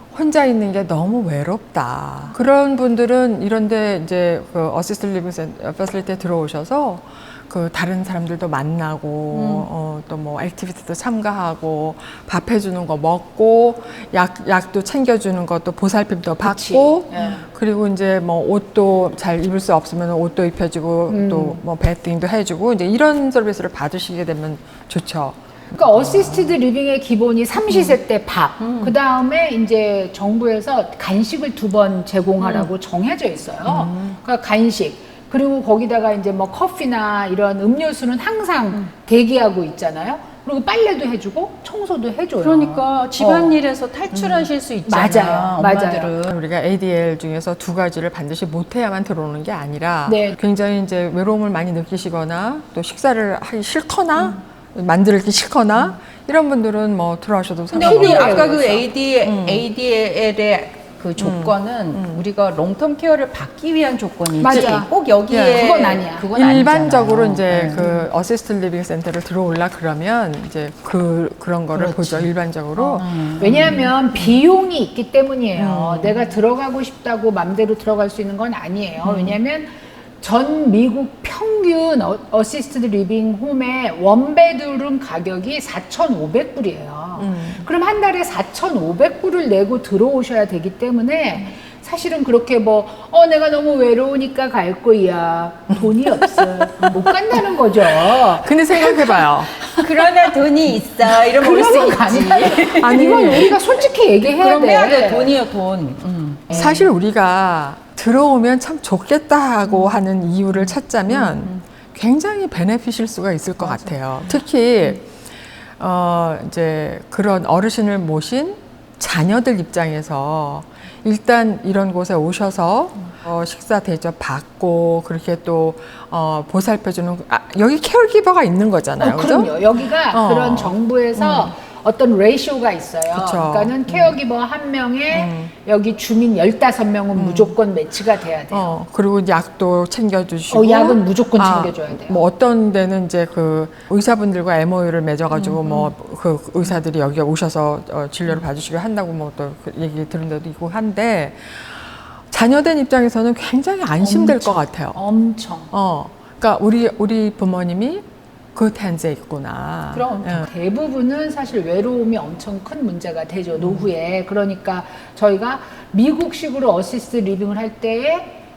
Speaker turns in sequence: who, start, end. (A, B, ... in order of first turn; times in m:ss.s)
0:00.1-0:26.5 A
0:09.3-0:09.7 B
0:16.4-0:17.4 C
0:21.1-0:21.6 C
0:25.7-0:43.6 C
0:27.7-0:28.0 B
0:28.6-0:28.9 B
0:32.4-0:32.7 B
0:33.6-0:34.2 A
0:42.4-0:46.4 B
0:44.2-0:44.5 A
0:44.9-0:46.1 C
0:46.3-0:58.6 A
0:50.1-0:50.4 C
0:57.7-1:07.9 B
0:57.8-0:58.8 C
0:59.2-0:59.7 A
1:01.2-1:02.2 A
1:04.4-1:06.3 C
1:04.5-1:05.7 A
1:06.3-1:13.3 A
1:11.7-1:14.3 B
1:13.4-1:39.8 C
1:15.6-1:16.1 A
1:19.0-1:19.3 A
1:27.2-1:27.6 A
1:35.8-1:39.6 A
1:39.7-1:43.6 B
1:41.2-1:45.4 C
1:42.4-1:43.6 A
1:44.2-1:46.7 B
1:46.5-1:46.9 C
1:46.5-1:55.1 A
1:49.8-1:50.0 B
1:51.1-1:51.6 B
1:53.6-1:54.0 B
1:55.8-2:11.5 A
2:09.0-2:18.7 C
2:13.1-2:14.2 A
2:15.1-2:15.5 A
2:17.1-2:17.6 A
2:18.5-2:35.0 A
2:20.5-2:22.2 C
2:34.0-2:35.7 C
2:35.7-2:38.0 A
2:38.5-2:40.5 A
2:39.9-2:40.5 B
2:40.4-2:48.3 C
2:43.6-2:43.9 A